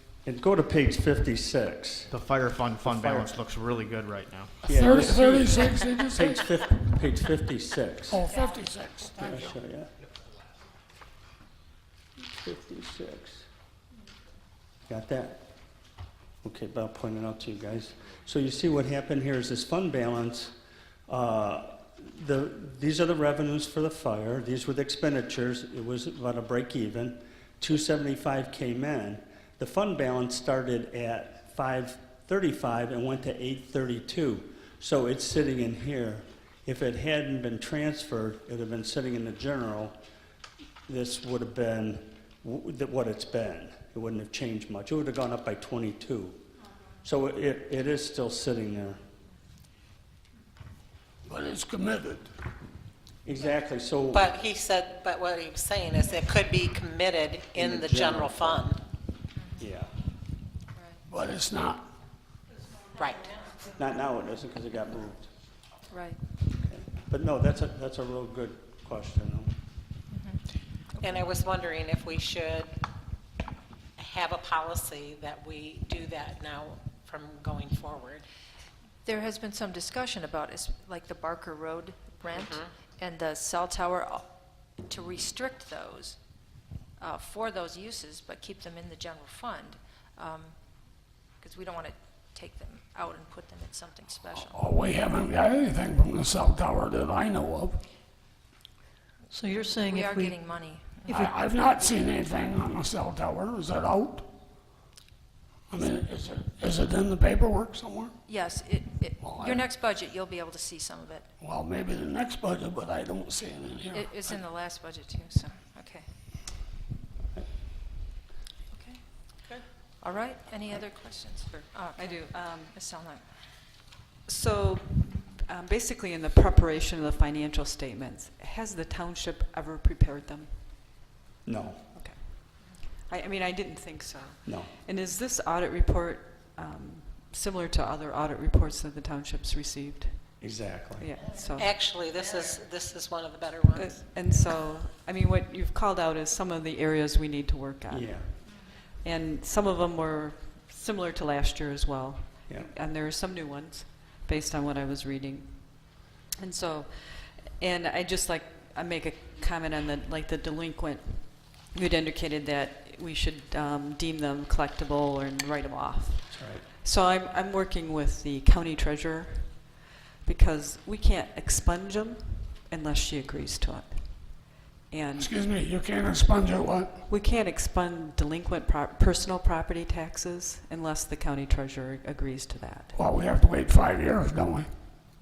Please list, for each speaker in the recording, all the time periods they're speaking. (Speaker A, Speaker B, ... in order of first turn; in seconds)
Speaker A: 0.2-2.1, 2.8-3.4, 4.7-8.3, 9.2-9.9, 12.3-13.5, 14.9-15.5, 16.4-20.6, 21.1-40.0, 40.9-46.4, 47.0-49.0, 53.2-54.3, 57.6-58.7, 59.6-59.9, 63.7-65.3, 66.6-69.5, 131.4-131.8, 134.4-134.7, 140.4-141.1, 147.9-148.3, 166.3-166.7
Speaker B: 2.1-4.7
Speaker C: 4.7-6.5, 8.1-9.6, 51.3-52.3, 61.1-61.9, 94.3-97.8, 101.1-104.3, 105.7-108.2, 109.2-109.7, 111.4-114.4, 175.2-176.9, 182.9-184.7
Speaker D: 54.1-58.8, 63.0-63.4, 71.0-72.7, 74.0-78.2, 82.4-82.7, 141.6-144.1
Speaker E: 59.3-59.6, 60.7-61.0, 65.9-66.2, 70.1-70.4, 70.9-71.3, 79.0-84.3, 84.8-86.2, 87.0-94.6, 99.6-101.2, 108.2-111.3, 113.9-116.1, 118.7-119.5, 120.0-123.3
Speaker F: 99.3-101.3
Speaker G: 122.0-122.8, 124.3-130.8, 131.9-140.4, 141.0-141.8, 143.7-175.3, 177.1-183.0